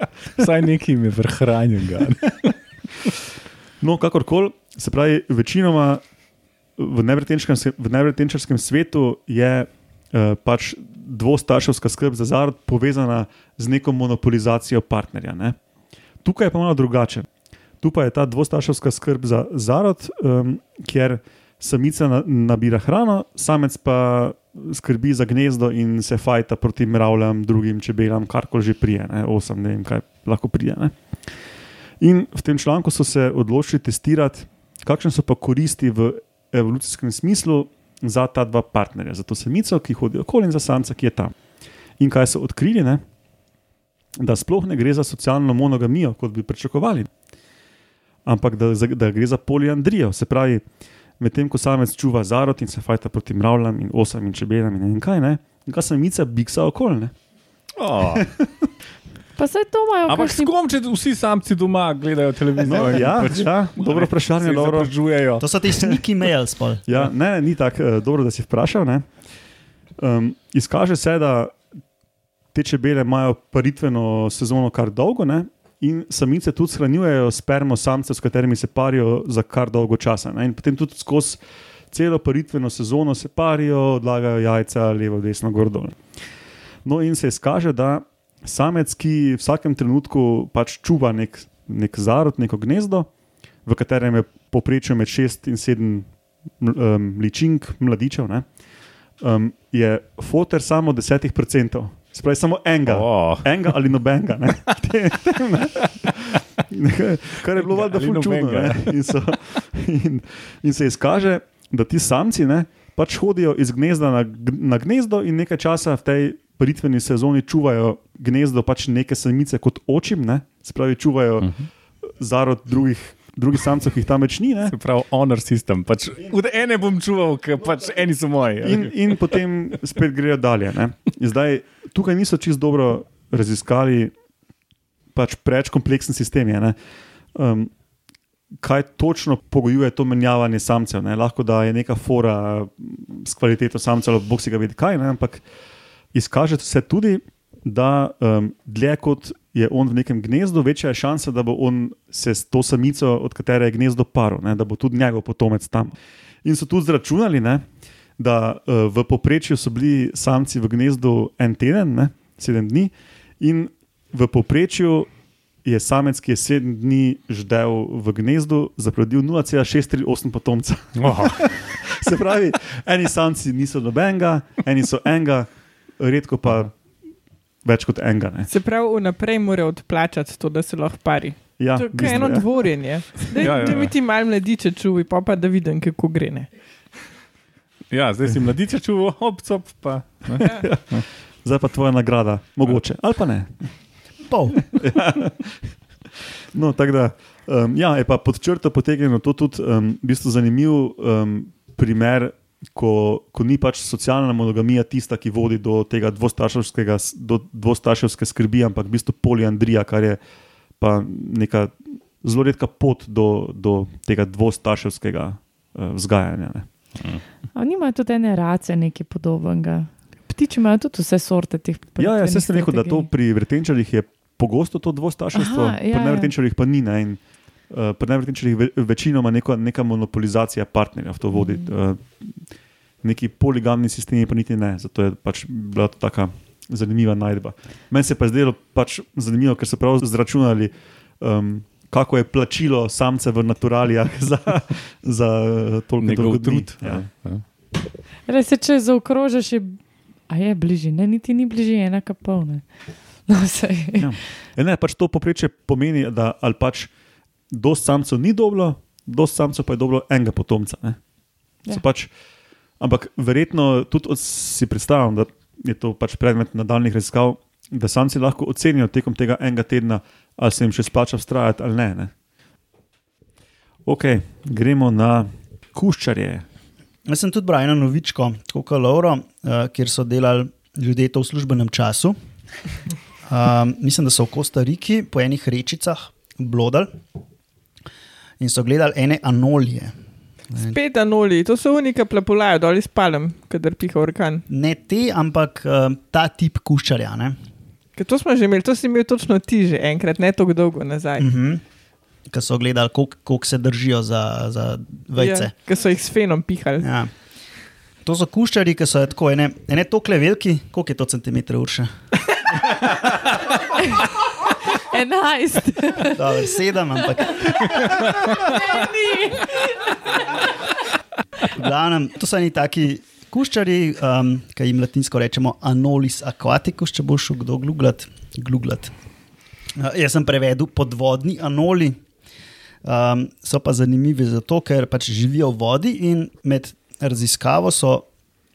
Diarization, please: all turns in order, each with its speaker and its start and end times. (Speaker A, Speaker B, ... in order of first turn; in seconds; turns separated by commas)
Speaker A: 0.3-2.6, Speaker B: 3.8-6.0, Speaker B: 6.8-15.6, Speaker B: 16.2-17.3, Speaker B: 17.8-30.9, Speaker B: 32.0-41.3, Speaker B: 42.0-43.0, Speaker B: 44.2-47.1, Speaker B: 48.3-50.6, Speaker B: 51.2-57.1, Speaker A: 57.8-58.3, Speaker B: 58.1-58.5, Speaker C: 59.4-60.5, Speaker A: 60.1-65.5, Speaker B: 62.6-65.0, Speaker D: 65.4-66.8, Speaker B: 66.9-69.1, Speaker B: 70.0-71.6, Speaker B: 72.5-81.4, Speaker B: 81.9-86.0, Speaker B: 86.8-93.1, Speaker B: 93.6-98.6, Speaker B: 99.2-124.8, Speaker A: 102.9-103.8, Speaker A: 107.4-109.1, Speaker A: 121.4-121.7, Speaker A: 124.7-129.4, Speaker B: 128.6-134.1, Speaker B: 135.1-136.8, Speaker B: 137.3-137.7, Speaker B: 138.6-145.4, Speaker B: 146.1-157.6, Speaker B: 158.2-165.1, Speaker B: 165.6-176.8, Speaker A: 171.0-171.6, Speaker B: 177.6-178.5, Speaker E: 178.5-186.5, Speaker B: 181.6-183.8, Speaker A: 183.4-183.9, Speaker A: 187.9-191.1, Speaker B: 190.4-193.8, Speaker D: 194.3-194.6, Speaker B: 194.7-195.6, Speaker B: 196.5-210.2, Speaker B: 210.8-216.9, Speaker A: 217.0-217.2, Speaker C: 217.6-223.1, Speaker B: 222.0-247.1, Speaker C: 225.3-226.3, Speaker C: 231.3-231.7, Speaker A: 246.0-247.4, Speaker C: 248.3-252.7, Speaker C: 253.2-254.2, Speaker B: 254.0-256.9, Speaker B: 257.5-261.0, Speaker B: 261.6-262.1, Speaker B: 262.8-272.1, Speaker B: 273.9-276.4, Speaker D: 277.1-282.2, Speaker D: 283.2-286.9, Speaker D: 288.4-289.9, Speaker D: 290.5-290.8, Speaker E: 290.6-294.4, Speaker D: 294.5-297.4, Speaker E: 298.0-301.3, Speaker D: 301.2-301.6, Speaker D: 302.3-305.5, Speaker E: 305.2-306.9, Speaker D: 306.8-307.1, Speaker D: 308.0-311.9, Speaker C: 314.7-316.6, Speaker D: 316.1-317.7, Speaker C: 317.4-320.0, Speaker D: 321.5-328.9, Speaker D: 329.8-332.0, Speaker D: 332.8-338.1